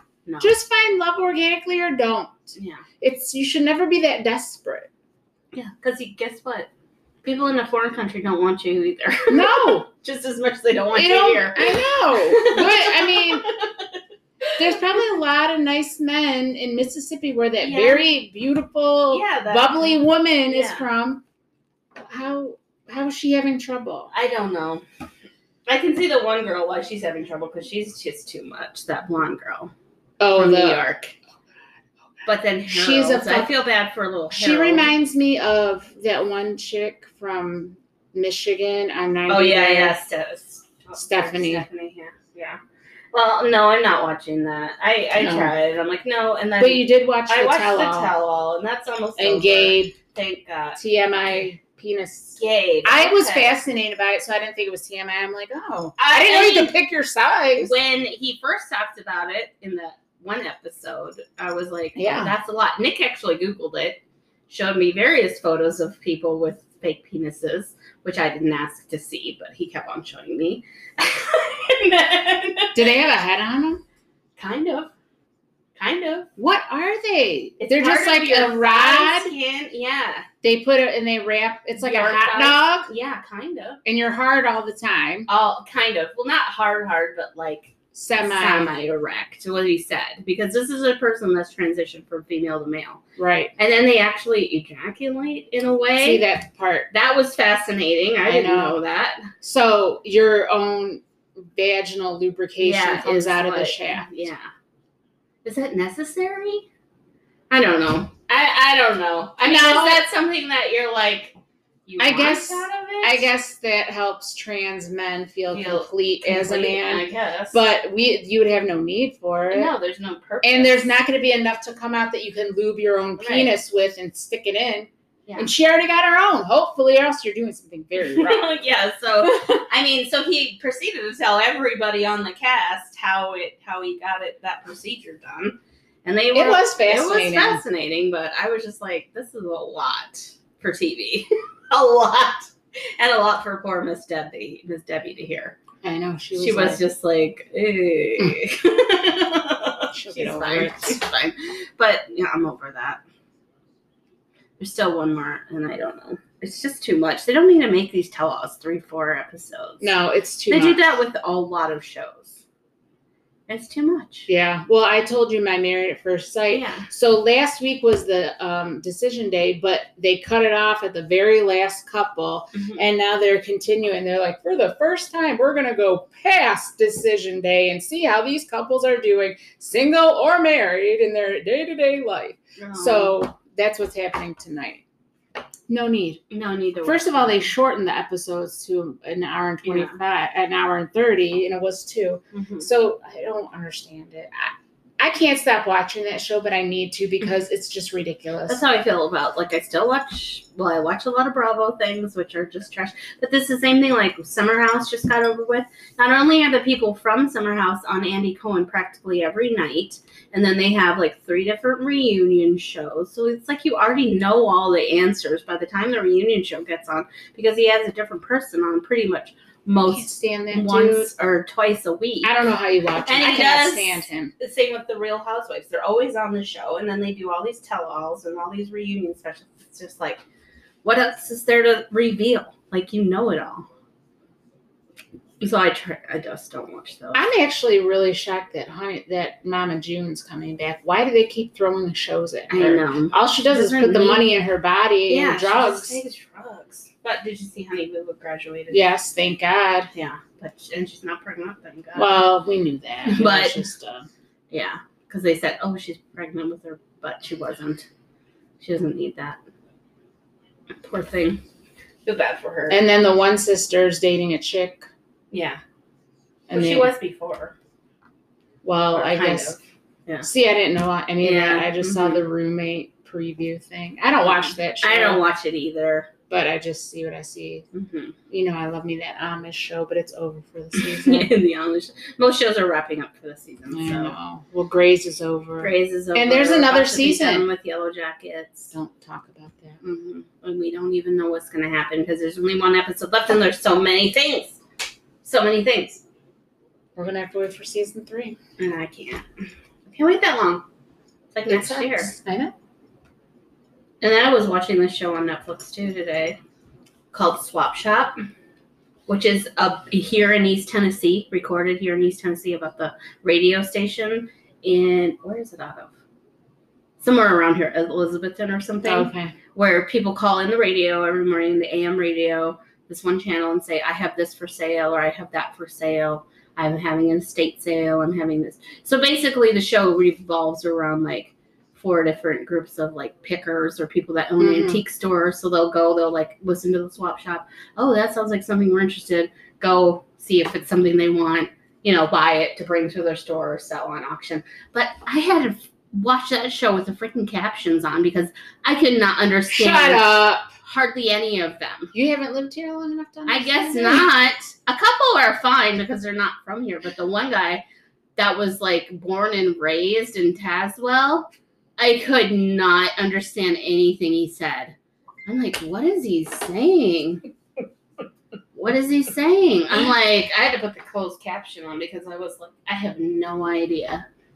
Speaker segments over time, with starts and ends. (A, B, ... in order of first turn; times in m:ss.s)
0:00.3-0:00.5 A
0:00.4-0:04.9 B
0:02.6-0:02.8 A
0:05.5-0:06.7 A
0:07.2-0:13.8 A
0:09.3-0:09.9 B
0:10.9-0:13.5 B
0:14.6-0:21.2 B
0:17.6-0:18.0 A
0:19.1-0:20.8 A
0:22.0-0:24.1 B
0:24.1-0:24.8 A
0:25.7-0:29.7 A
0:30.2-0:31.0 B
0:30.3-0:31.1 A
0:32.2-0:34.9 A
0:32.7-0:33.5 B
0:34.3-0:40.0 B
0:39.3-0:42.6 A
0:40.9-0:41.6 B
0:43.1-0:50.8 A
0:45.2-0:45.6 B
0:46.6-0:48.1 B
0:49.2-0:49.9 B
0:50.8-0:57.7 B
0:52.4-0:53.6 A
0:56.0-0:56.7 A
0:57.6-1:12.9 A
1:02.0-1:02.3 B
1:12.8-1:13.8 B
1:14.4-1:14.9 A
1:15.8-1:16.3 A
1:16.4-1:19.3 B
1:17.6-1:20.3 A
1:20.4-1:22.9 B
1:21.8-1:23.8 A
1:23.8-1:25.3 B
1:25.3-1:33.0 A
1:27.9-1:28.7 B
1:33.2-1:33.5 B
1:33.6-1:36.2 A
1:36.0-1:36.9 B
1:36.9-1:39.3 A
1:38.2-1:38.8 B
1:39.4-1:44.1 B
1:42.6-1:44.5 A
1:45.4-1:46.7 A
1:47.5-1:51.3 A
1:49.4-1:50.0 B
1:51.9-1:53.3 A
1:52.0-1:59.7 B
1:55.5-1:57.6 A
1:59.5-2:00.9 A
2:00.4-2:08.6 B
2:03.2-2:03.5 A
2:05.3-2:05.5 A
2:08.0-2:25.6 A
2:16.3-2:17.6 B
2:25.8-2:26.8 B
2:26.4-2:33.0 A
2:29.9-2:31.0 B
2:34.6-2:39.9 A
2:39.8-2:40.8 B
2:40.5-2:42.4 A
2:43.5-2:44.3 A
2:44.3-3:04.8 B
2:46.5-2:46.9 A
2:52.6-2:52.8 A
3:02.6-3:03.2 A
3:05.7-3:06.2 B
3:06.3-3:07.5 A
3:06.8-3:18.6 B
3:09.6-3:09.9 A
3:12.3-3:12.6 A
3:18.5-3:42.3 A
3:39.9-3:41.1 B
3:42.2-3:44.3 B
3:43.0-3:50.2 A
3:50.8-3:53.7 A
3:55.4-3:57.2 A
3:57.1-4:06.0 B
4:02.5-4:04.3 A
4:05.1-4:08.9 A
4:08.7-4:09.9 B
4:09.9-4:12.3 A
4:12.0-4:14.1 B
4:13.1-4:13.6 A
4:14.5-4:17.9 A
4:18.6-4:19.4 A
4:20.8-4:21.4 A
4:22.0-4:22.8 A
4:22.7-4:24.9 B
4:25.3-4:25.6 A
4:26.5-4:26.9 B
4:26.5-4:27.6 A
4:28.6-4:29.6 B
4:28.9-4:30.3 A
4:30.2-4:35.2 B
4:31.2-4:32.2 A
4:34.2-4:36.1 A
4:36.3-4:37.6 B
4:37.7-4:38.1 A
4:38.3-4:41.3 B
4:40.8-4:44.1 A
4:43.7-4:47.5 B
4:45.6-4:48.7 A
4:48.7-4:49.8 B
4:49.8-4:54.6 A
4:55.2-4:56.0 A
4:57.0-4:58.4 B
4:58.6-4:59.3 A
4:59.9-5:00.6 A
5:01.3-5:02.1 A
5:01.5-5:02.5 B
5:04.0-5:06.4 A
5:07.1-5:08.2 A
5:09.1-5:15.9 A
5:17.0-5:51.9 A
5:18.8-5:19.3 B
5:34.4-5:34.8 B
5:49.5-5:50.5 B
5:51.9-5:54.1 B
5:53.3-5:57.6 A
5:58.2-6:04.8 A
6:05.3-6:07.2 A
6:08.6-6:14.1 A